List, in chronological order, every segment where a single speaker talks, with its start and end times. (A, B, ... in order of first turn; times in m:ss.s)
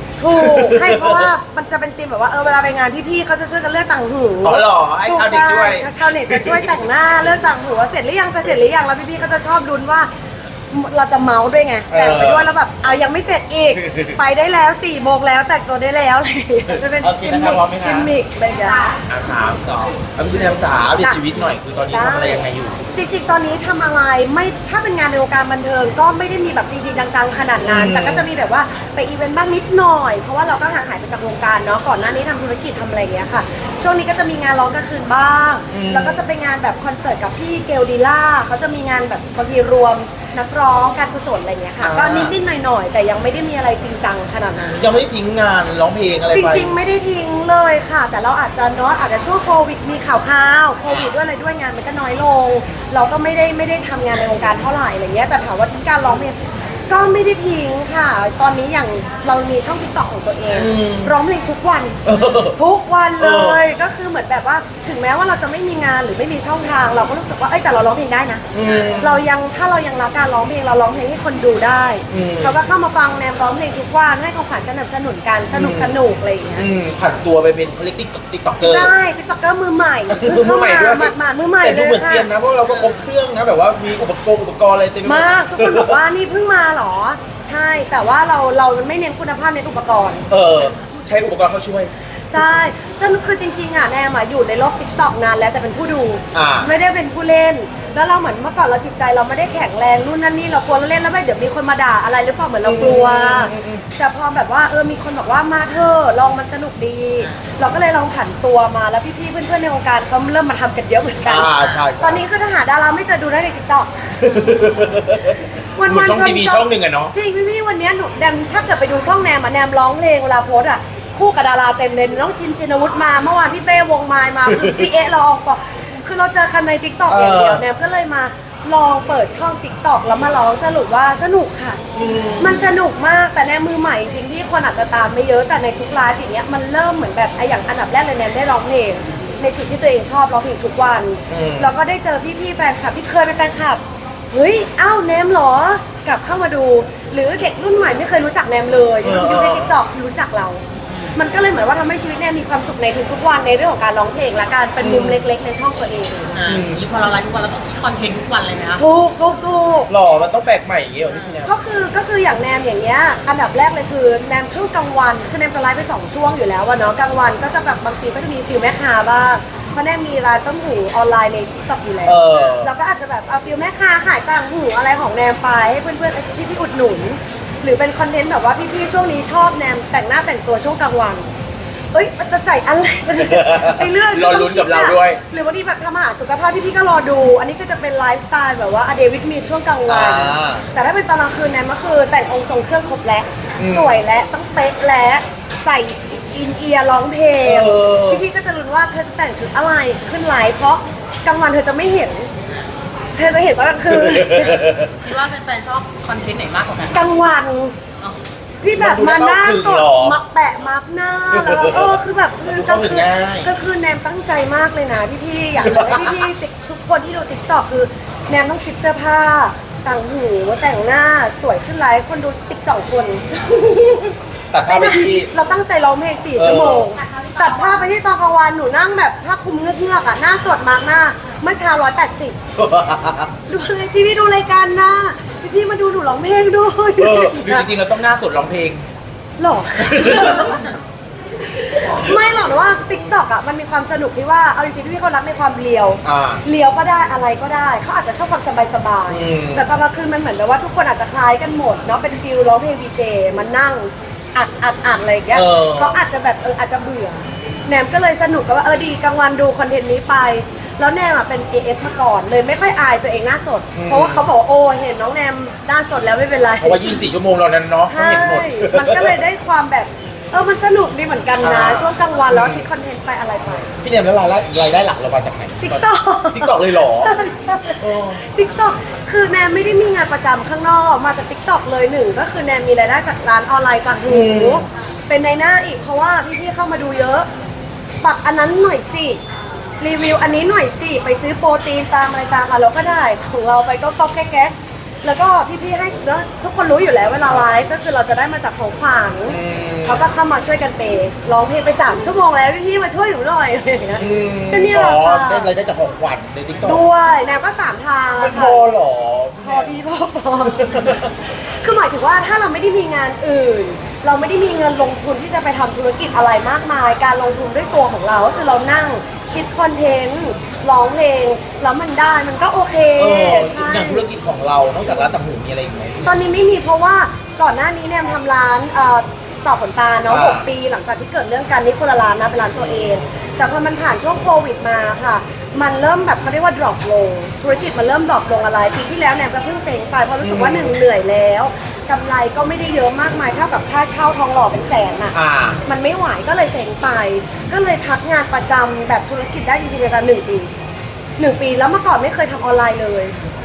0:00.2-0:10.1 A
0:00.3-0:01.3 B
0:04.4-0:06.7 B
0:10.7-0:18.9 A
0:11.9-0:12.5 B
0:13.8-0:14.2 B
0:17.0-0:18.1 B
0:19.1-0:22.8 B
0:21.9-0:45.0 A
0:27.6-0:28.2 B
0:35.7-0:36.2 B
0:41.8-0:42.3 B
0:44.8-0:46.7 B
0:46.3-0:56.4 A
0:56.9-1:08.4 A
1:00.5-1:01.2 B
1:02.0-1:02.6 B
1:03.2-1:03.6 B
1:08.5-1:09.2 B
1:09.0-1:16.7 A
1:12.1-1:12.6 B
1:15.5-1:16.0 B
1:16.6-1:18.9 B
1:18.6-1:22.3 A
1:20.1-1:26.0 B
1:25.0-1:30.3 A
1:30.3-1:32.4 B
1:32.3-1:54.3 A
1:36.3-1:36.7 B
1:42.6-1:43.8 B
1:51.2-1:52.2 B
1:51.6-1:51.8 C
1:54.2-1:57.1 B
1:55.8-2:11.8 A
2:04.4-2:04.9 B
2:07.1-2:07.6 B
2:11.9-2:12.6 B
2:12.4-2:30.6 A
2:21.3-2:21.7 B
2:29.0-2:29.8 B
2:30.9-2:31.2 C
2:31.1-2:36.4 A
2:34.8-2:35.3 B
2:36.3-2:38.8 C
2:36.4-2:36.8 B
2:38.8-2:39.9 A
2:39.9-2:41.5 B
2:41.1-2:41.4 C
2:41.4-3:01.3 A
2:52.0-2:52.7 B
3:01.9-3:22.3 A
3:03.2-3:05.2 B
3:09.9-3:10.7 B
3:13.6-3:14.0 B
3:17.4-3:18.2 B
3:23.1-3:24.6 A
3:23.9-3:25.0 B
3:25.0-3:27.0 C
3:26.9-3:27.7 A
3:28.6-3:43.3 A
3:28.7-3:30.2 B
3:31.3-3:33.5 B
3:35.6-3:36.3 B
3:43.4-3:45.3 B
3:44.7-3:52.4 A
3:46.4-3:46.9 B
3:52.6-3:53.3 B
3:53.5-3:57.7 A
3:57.0-3:58.8 B
3:59.4-4:00.7 A
3:59.8-4:00.6 B
4:01.6-4:27.0 A
4:06.0-4:06.4 B
4:09.1-4:09.6 B
4:15.3-4:16.0 B
4:23.7-4:24.2 B
4:26.6-4:29.1 B
4:27.9-4:33.7 A
4:31.4-4:32.6 B
4:33.8-4:37.1 B
4:35.6-4:47.3 A
4:37.8-4:38.2 B
4:44.0-4:44.6 B
4:48.0-4:49.2 A
4:49.8-5:05.5 A
4:59.3-5:00.0 B
5:04.0-5:06.8 B
5:06.6-5:08.7 A
5:08.2-5:09.8 B
5:09.4-5:24.0 A
5:10.5-5:11.1 B
5:23.0-5:26.1 B
5:26.0-5:50.5 A
5:30.1-5:30.5 B
5:32.6-5:33.0 B
5:40.2-5:40.8 B
5:45.1-5:45.6 B
5:51.2-5:53.1 A